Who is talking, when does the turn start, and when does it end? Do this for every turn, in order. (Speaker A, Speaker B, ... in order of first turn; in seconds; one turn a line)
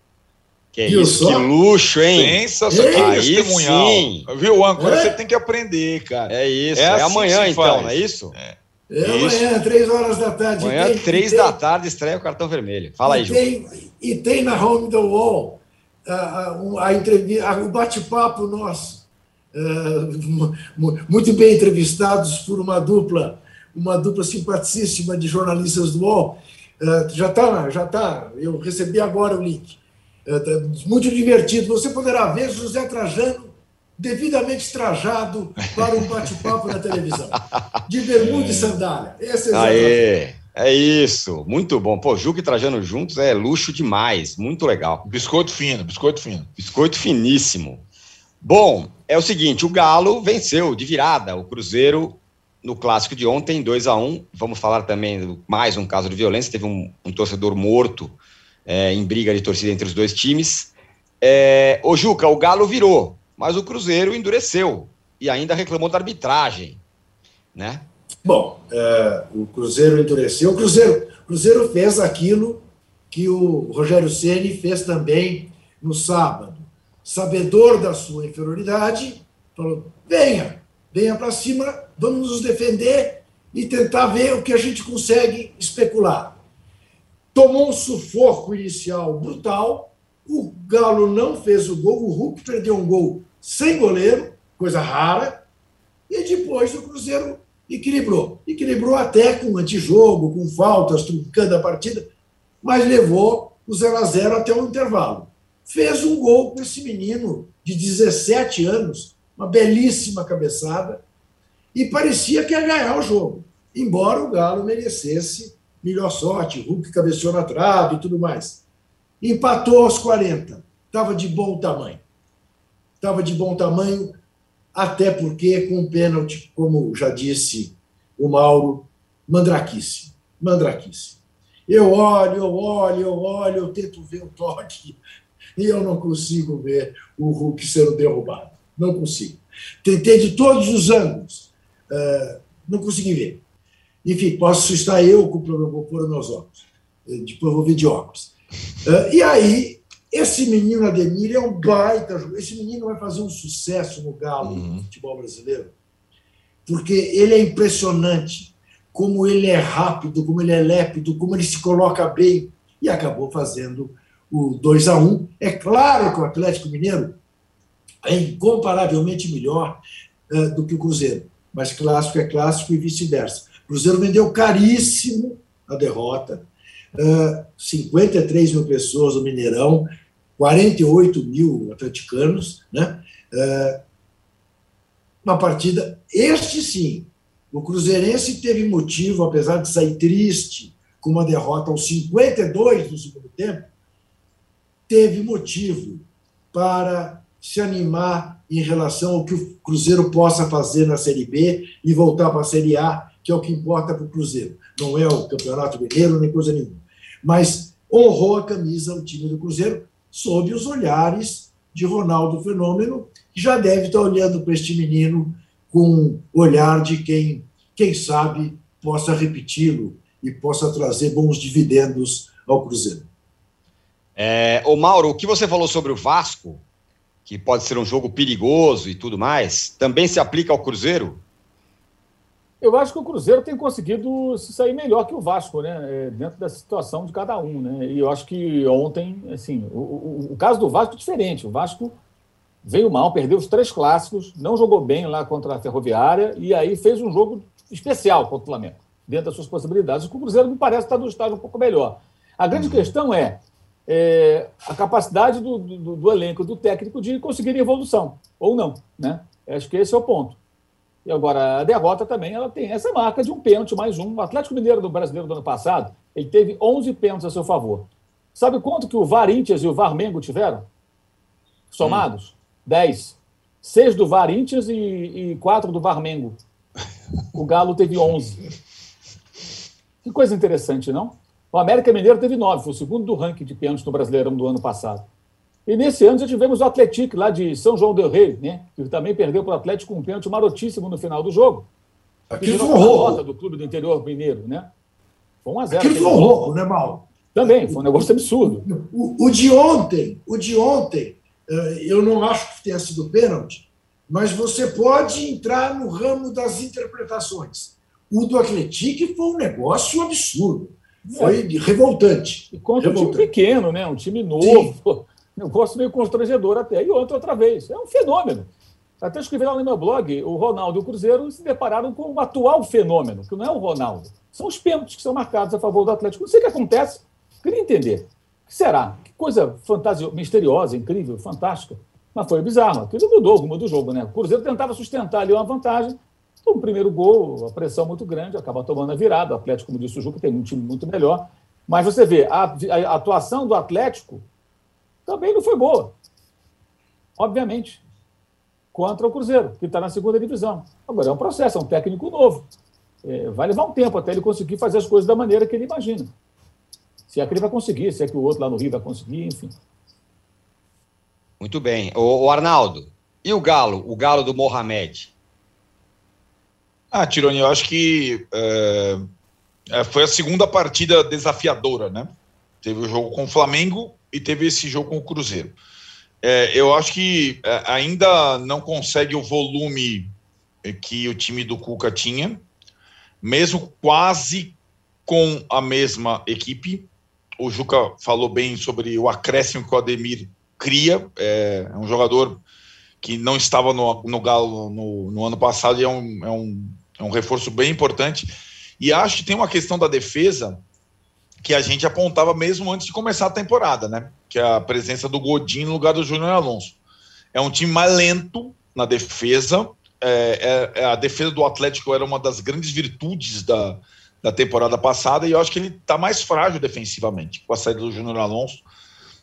Speaker A: 0.7-4.3
Speaker B: 0.8-1.5
Speaker C: 2.1-9.4
Speaker B: 2.7-3.2
Speaker B: 4.8-5.2
Speaker A: 6.3-8.3
Speaker B: 8.9-11.6
Speaker A: 10.6-13.4
Speaker B: 13.0-40.0
Speaker C: 38.2-38.8
Speaker A: 39.5-45.0
Speaker C: 45.0-46.5
Speaker A: 46.6-47.8
Speaker A: 48.4-58.1
Speaker A: 58.6-66.8
Speaker A: 67.5-67.8
Speaker B: 68.2-86.4
Speaker B: 87.3-95.4
Speaker B: 96.1-102.1
Speaker B: 102.6-111.0
Speaker B: 111.7-118.6
Speaker B: 119.2-122.0
Speaker B: 123.0-124.2
Speaker B: 124.7-135.0
Speaker B: 135.6-143.4
Speaker B: 144.0-148.3
Speaker B: 148.8-155.7
Speaker C: 154.4-154.8
Speaker B: 156.7-167.2
Speaker B: 168.0-183.8
Speaker B: 185.2-193.7
Speaker B: 194.9-223.1
Speaker A: 224.2-226.6
Speaker A: 227.2-231.2
Speaker D: 232.6-241.9
Speaker D: 242.6-260.4
Speaker C: 252.5-252.8
Speaker D: 261.0-270.6
Speaker D: 271.7-276.4
Speaker D: 277.3-278.4
Speaker D: 280.0-285.0
Speaker D: 285.7-291.6
Speaker B: 292.3-293.2
Speaker D: 292.4-294.7
Speaker D: 295.4-296.5
Speaker B: 295.7-313.3
Speaker D: 297.3-298.6
Speaker D: 311.1-311.4
Speaker D: 312.5-318.5
Speaker B: 314.4-314.7
Speaker D: 319.0-344.2
Speaker D: 345.1-345.9
Speaker D: 347.2-347.8
Speaker D: 348.7-352.4
Speaker D: 353.0-356.1
Speaker D: 357.1-359.5
Speaker A: 361.4-365.1
Speaker C: 366.9-369.0
Speaker C: 369.7-372.1
Speaker C: 372.6-375.5
Speaker C: 376.2-380.1
Speaker C: 380.6-382.4
Speaker C: 383.2-384.5
Speaker C: 385.1-386.8
Speaker C: 387.4-392.4
Speaker C: 393.0-400.6
Speaker C: 401.4-406.8
Speaker C: 407.3-418.6